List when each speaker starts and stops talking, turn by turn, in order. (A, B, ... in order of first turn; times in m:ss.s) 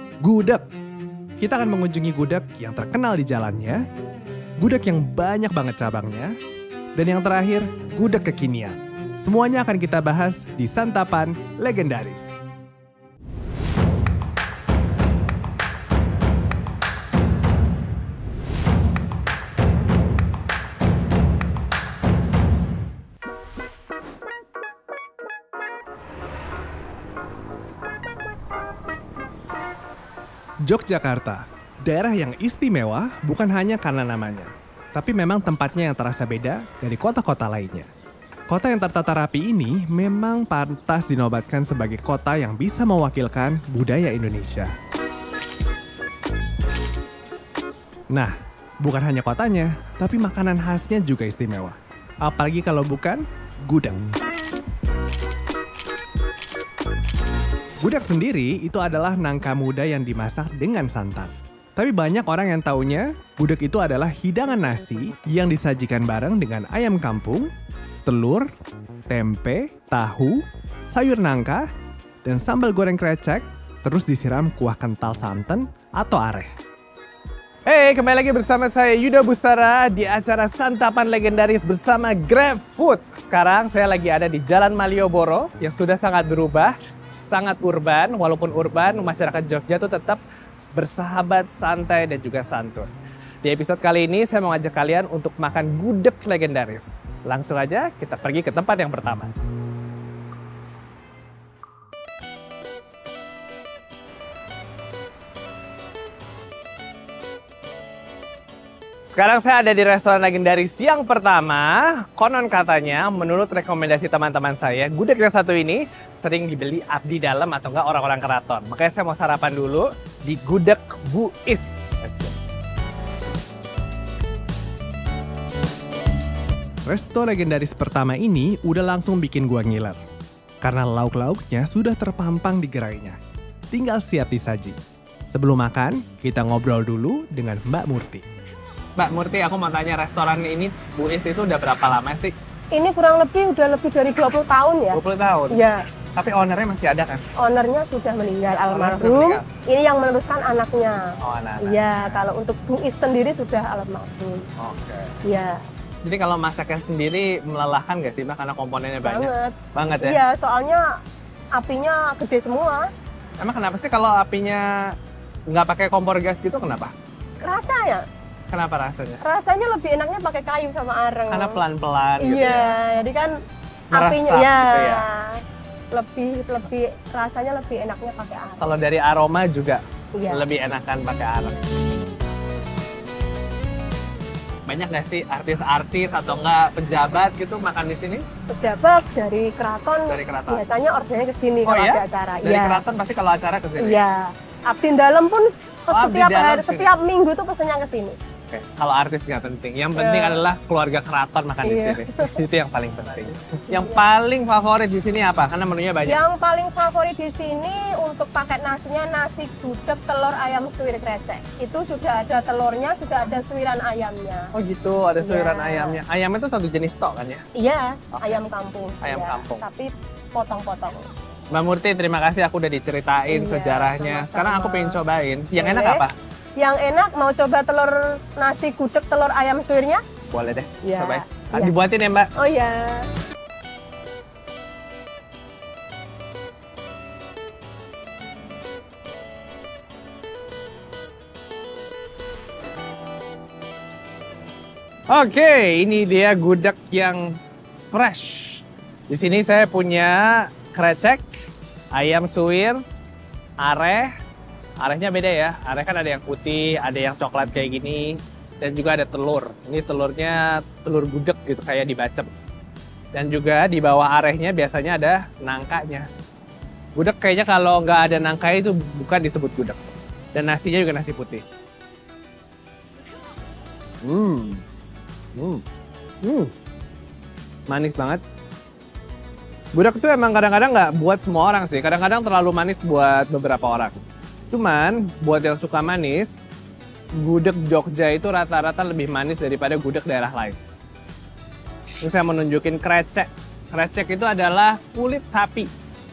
0:00.2-0:00.6 A
0:01.4-0:03.8 A
0:04.6-0:06.3 A
0:07.0-0:12.4 A
0:30.6-0:37.9 A
0:38.5-0:44.7 A
0:48.1-0:54.0 A
0:57.8-1:07.5 A
1:08.0-1:08.5 A
1:09.1-1:11.7 A
1:12.2-1:16.5 A
1:17.7-1:30.2 A
1:30.7-1:32.9 A
1:33.4-1:39.3 A
1:49.1-2:02.4 A
2:06.8-2:10.0 A
2:10.6-2:13.2 A
2:13.7-2:14.8 A
2:15.3-2:18.2 A
2:19.0-2:22.3 A
2:22.7-2:25.8 B
2:24.9-2:27.4 A
2:27.4-2:31.0 B
2:28.7-2:29.5 A
2:31.2-2:32.3 A
2:31.6-2:34.4 B
2:34.6-2:35.2 A
2:35.3-2:35.6 B
2:36.0-2:40.2 A
2:39.0-2:40.8 B
2:41.5-2:42.9 B
2:43.4-2:44.9 A
2:45.5-2:46.9 A
2:47.4-2:48.0 B
2:48.5-2:49.2 A
2:49.2-2:51.6 B
2:51.3-2:52.8 A
2:52.2-2:53.3 B
2:53.9-2:55.1 A
2:53.9-2:55.4 B
2:55.9-2:58.7 B
2:58.6-3:01.6 A
3:00.2-3:00.5 B
3:04.7-3:08.2 A
3:08.5-3:12.8 B
3:10.1-3:10.6 A
3:11.6-3:14.0 A
3:13.8-3:18.2 B
3:15.9-3:16.9 A
3:18.5-3:26.2 A
3:20.0-3:20.4 B
3:21.6-3:22.3 B
3:23.7-3:24.0 B
3:26.0-3:34.5 B
3:34.5-3:37.5 A
3:35.2-3:36.0 B
3:37.6-3:41.1 B
3:38.1-3:38.4 A
3:39.0-3:39.7 A
3:41.5-3:46.2 A
3:43.3-3:45.0 B
3:45.6-3:46.1 B
3:46.6-3:50.0 B
3:50.3-3:52.3 A
3:50.8-3:51.7 B
3:52.4-3:53.1 B
4:05.1-4:07.4 A
4:07.9-4:11.3 A
4:11.9-4:12.8 A
4:13.6-4:14.1 A
4:14.8-4:22.3 A
4:23.1-4:26.1 A
4:27.0-4:29.8 A
4:30.3-4:31.4 A
4:34.0-4:34.6 A
4:35.4-4:35.6 A
4:36.2-4:36.5 A
4:37.7-4:38.2 A
4:39.7-4:46.4 A
4:47.2-4:50.6 A
4:52.0-4:55.7 A